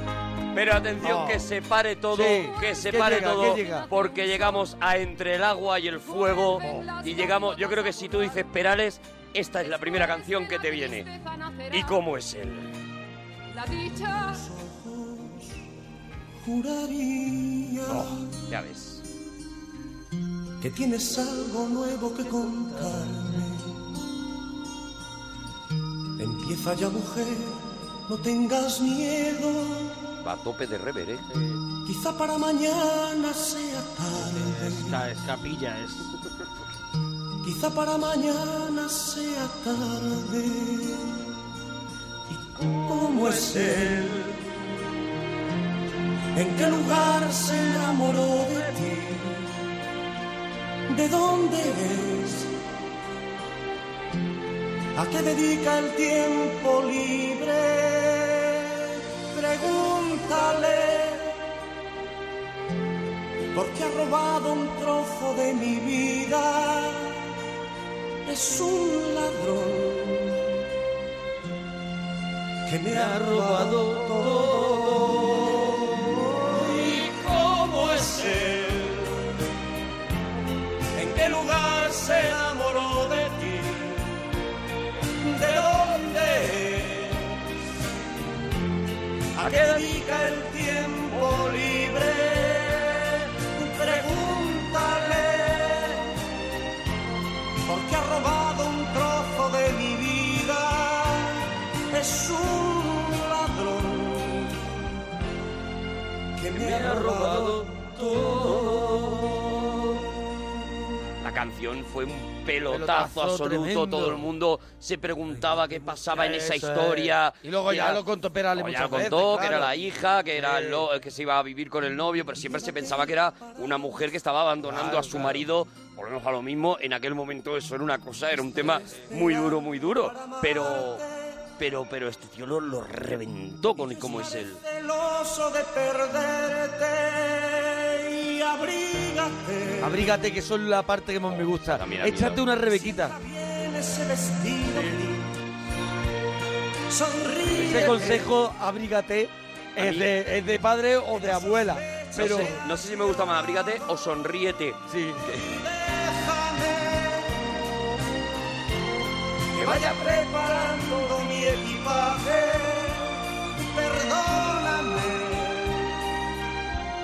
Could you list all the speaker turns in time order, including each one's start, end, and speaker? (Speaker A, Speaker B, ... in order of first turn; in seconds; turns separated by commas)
Speaker A: 0.5-11.1, Speaker B: 1.0-1.4, Speaker B: 2.1-3.9, Speaker C: 2.5-2.8, Speaker C: 3.6-4.6, Speaker C: 6.0-8.5, Speaker C: 9.6-12.0, Speaker A: 11.7-12.7, Speaker C: 13.5-14.4, Speaker D: 14.1-15.6, Speaker D: 16.4-18.2, Speaker A: 18.5-19.0, Speaker D: 20.6-23.8, Speaker D: 26.2-30.0, Speaker A: 30.2-31.3, Speaker D: 31.8-35.1, Speaker B: 34.6-36.1, Speaker D: 37.4-41.2, Speaker D: 42.3-44.4, Speaker D: 46.4-49.5, Speaker D: 50.9-52.5, Speaker D: 54.9-61.3, Speaker D: 63.5-67.2, Speaker D: 68.2-70.5, Speaker D: 72.6-79.0, Speaker A: 76.9-78.2, Speaker D: 81.0-84.0, Speaker D: 85.2-87.2, Speaker D: 89.3-96.0, Speaker A: 89.4-89.9, Speaker D: 97.6-104.5, Speaker D: 106.3-108.3, Speaker A: 106.5-109.2, Speaker A: 111.2-118.0, Speaker B: 112.7-114.2, Speaker B: 116.1-119.7, Speaker A: 118.5-131.0, Speaker B: 120.3-120.8, Speaker D: 122.3-123.6, Speaker B: 124.6-125.4, Speaker D: 128.4-131.3, Speaker A: 131.6-134.6, Speaker D: 133.6-140.1, Speaker B: 139.8-143.1, Speaker A: 141.3-142.5, Speaker D: 142.6-145.3, Speaker D: 146.9-148.3, Speaker B: 147.6-152.5, Speaker A: 149.8-150.1, Speaker D: 151.1-152.8, Speaker A: 152.1-155.4, Speaker B: 154.9-155.2, Speaker D: 155.3-157.3, Speaker D: 159.5-165.8